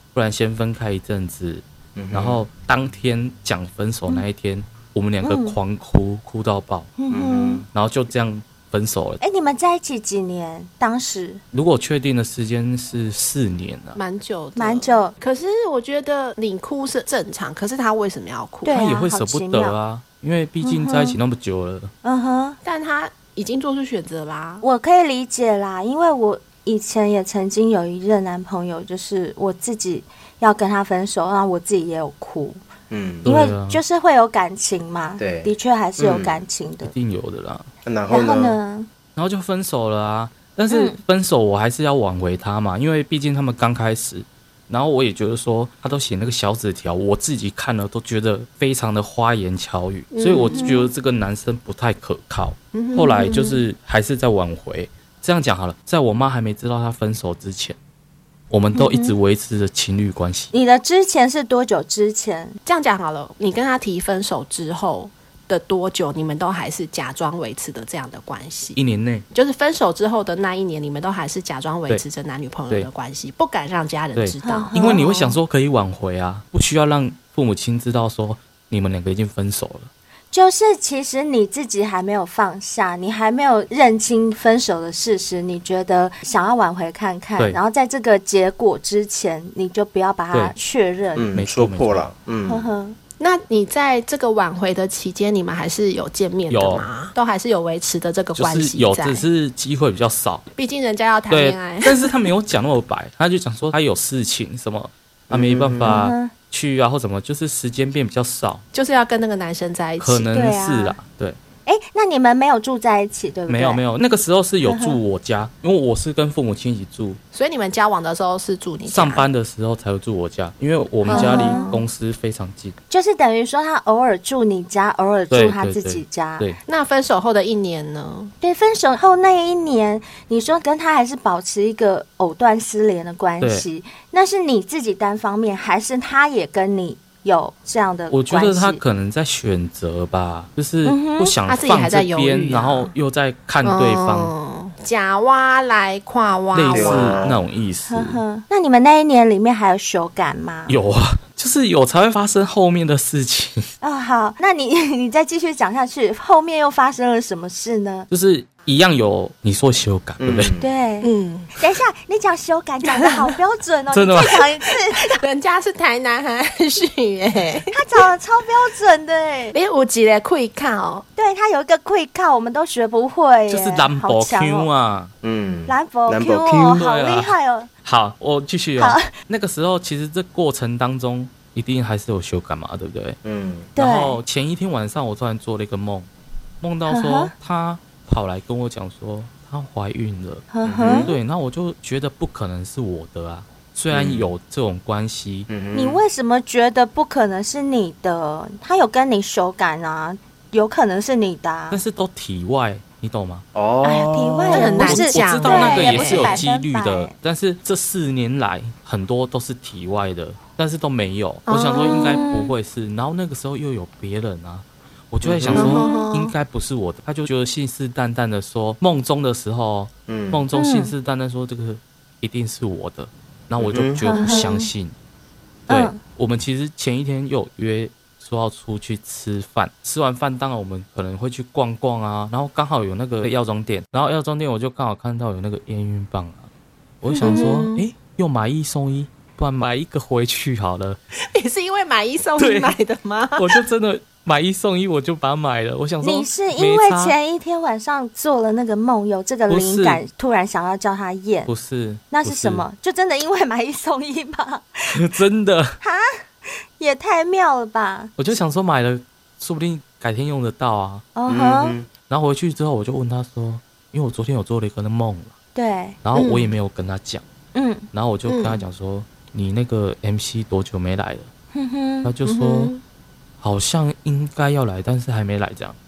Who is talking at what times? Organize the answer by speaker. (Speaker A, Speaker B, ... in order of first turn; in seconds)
Speaker A: 0.1-6.9, 7.7-9.2, 11.5-14.0, 18.7-21.9, 33.2-33.8, 36.8-37.7, 39.1-57.8, 58.5-60.5, 68.8-69.2, 74.1-79.9, 91.3-92.1, 96.5-96.9, 98.3-100.5, 101.3-108.6, 110.0-111.4, 113.5-117.2, 118.8-122.8, 125.3-126.6, 133.4-133.7, 138.1-144.3, 146.5-148.2, 150.7-153.7, 158.1-160.5, 163.9-164.4, 173.5-175.1, 176.8-183.2, 183.8-186.1, 186.6-195.5, 201.7-203.4, 204.7-224.9, 225.7-236.5, 237.0-241.0, 242.4-242.8, 243.3-247.2, 249.5-250.0, 251.5-252.6, 254.9-255.8, 258.2-261.1, 262.0-265.3, 266.0-267.2, 267.9-271.3, 272.0-272.7, 273.4-275.8
Speaker B: 1.9-2.4, 7.1-7.7, 32.9-33.2, 35.2-36.4, 37.8-38.6, 91.2-92.7, 105.3-106.0, 146.7-147.4, 160.2-160.7, 175.2-176.8, 183.2-183.7, 190.6-191.1, 193.9-194.3, 195.5-196.0, 203.5-204.9, 215.2-215.8, 220.1-220.4, 223.6-224.1, 261.3-261.9
Speaker C: 5.2-5.6, 7.0-7.7, 9.2-11.4, 14.6-15.1, 18.6-19.8, 20.6-21.2, 22.0-22.6, 24.6-32.6, 33.2-36.9, 38.1-38.9, 40.7-41.0, 50.5-50.9, 58.7-59.1, 60.5-62.6, 74.4-75.0, 80.3-91.3, 92.5-93.0, 105.8-106.3, 110.3-111.0, 111.6-113.8, 114.6-115.0, 121.1-121.8, 122.9-126.5, 128.4-138.8, 140.8-141.3, 147.9-150.8, 153.8-158.1, 160.6-165.2, 167.7-169.6, 171.2-174.7, 175.7-177.7, 178.8-179.1, 183.7-184.2, 186.9-187.3, 190.5-191.1, 195.7-201.8, 203.8-207.1, 211.7-212.5, 215.5-216.1, 220.5-220.9, 224.0-224.7, 225.7-226.0, 237.1-237.5, 246.0-251.5, 252.1-255.0, 255.8-256.1, 256.8-258.4, 261.1-261.8, 265.5-266.0, 267.5-267.9, 271.5-272.1
Speaker D: 13.9-18.8, 22.6-24.6, 50.1-50.9, 52.7-53.6, 62.6-68.8, 69.3-75.4, 93.2-99.2, 100.5-102.2, 108.7-110.2, 117.3-119.3, 121.0-121.8, 126.7-128.3, 141.5-142.9, 143.6-147.2, 161.0-161.5, 164.9-168.1, 169.5-171.0, 204.5-206.4, 211.5-212.3, 215.5-216.3, 237.2-237.8, 241.3-243.6, 266.1-266.5, 268.3-268.6, 272.2-272.8